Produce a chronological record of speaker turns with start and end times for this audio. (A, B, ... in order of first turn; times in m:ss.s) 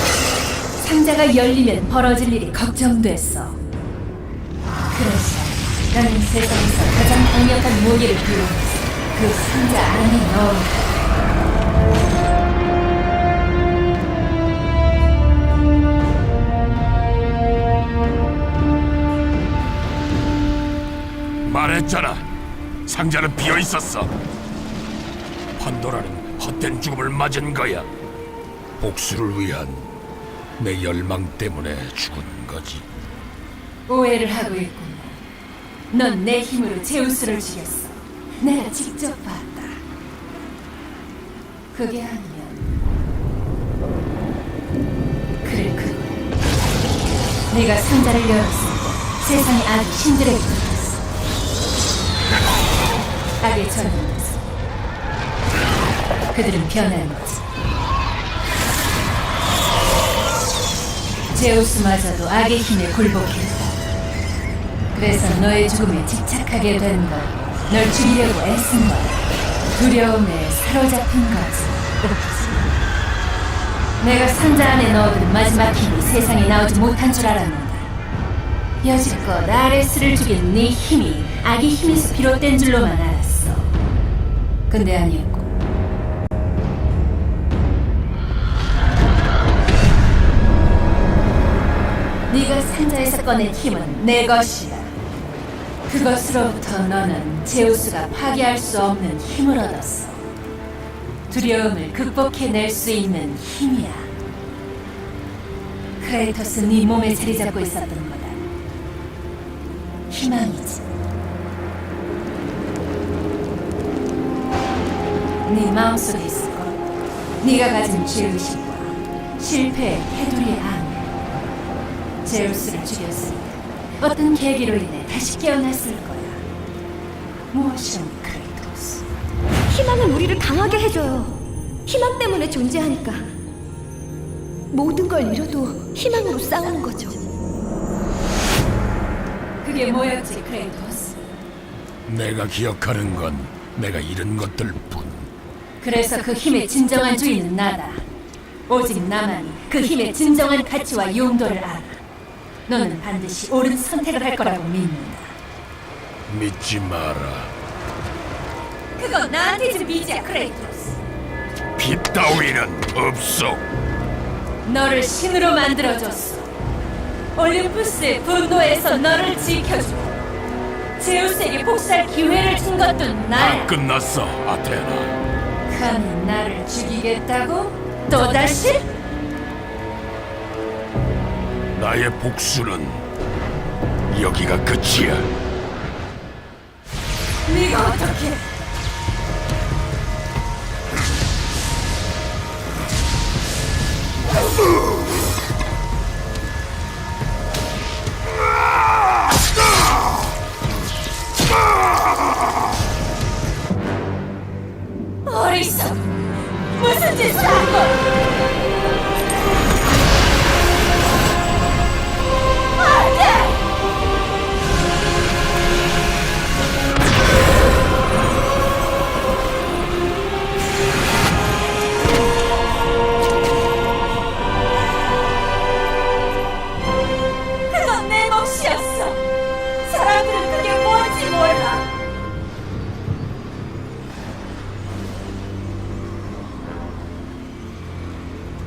0:00.8-0:03.6 A
0:04.9-0:11.0 A
0:21.4-0:22.3 B
0:22.9-0:24.1 B
0:25.6-0:27.9 B
0:28.8-0:29.9 B
0:30.6-0:32.9 B
0:33.9-0:35.2 A
0:35.9-0:39.8 A
0:41.7-0:42.7 A
0:45.4-0:46.2 A
0:47.5-0:51.1 A
0:53.4-0:54.6 A
0:56.3-0:57.4 A
1:01.3-1:03.8 A
1:04.9-1:12.8 A
1:14.0-1:17.9 A
1:18.8-1:23.7 A
1:24.7-1:25.5 A
1:32.3-1:35.0 A
1:35.9-1:40.3 A
1:41.3-1:44.1 A
1:46.0-1:48.4 A
1:50.1-1:50.9 A
1:55.4-1:56.8 A
1:57.4-2:01.1 A
2:02.2-2:06.4 A
2:07.5-2:09.1 A
2:09.7-2:13.3 C
2:14.7-2:17.2 C
2:19.6-2:21.3 A
2:22.1-2:25.3 B
2:25.8-2:28.1 A
2:28.7-2:32.0 A
2:32.7-2:35.4 A
2:36.3-2:37.5 B
2:39.0-2:41.0 A
2:41.8-2:43.6 B
2:44.6-2:46.5 A
2:47.4-2:50.2 A
2:51.0-2:53.7 A
2:53.4-2:55.2 B
2:55.7-2:58.9 A
3:01.7-3:03.0 B
3:04.1-3:05.3 B
3:07.5-3:08.6 A
3:25.3-3:26.2 A
3:26.8-3:28.0 A
3:32.8-3:33.5 A
3:47.7-3:49.2 A
3:49.8-3:51.8 A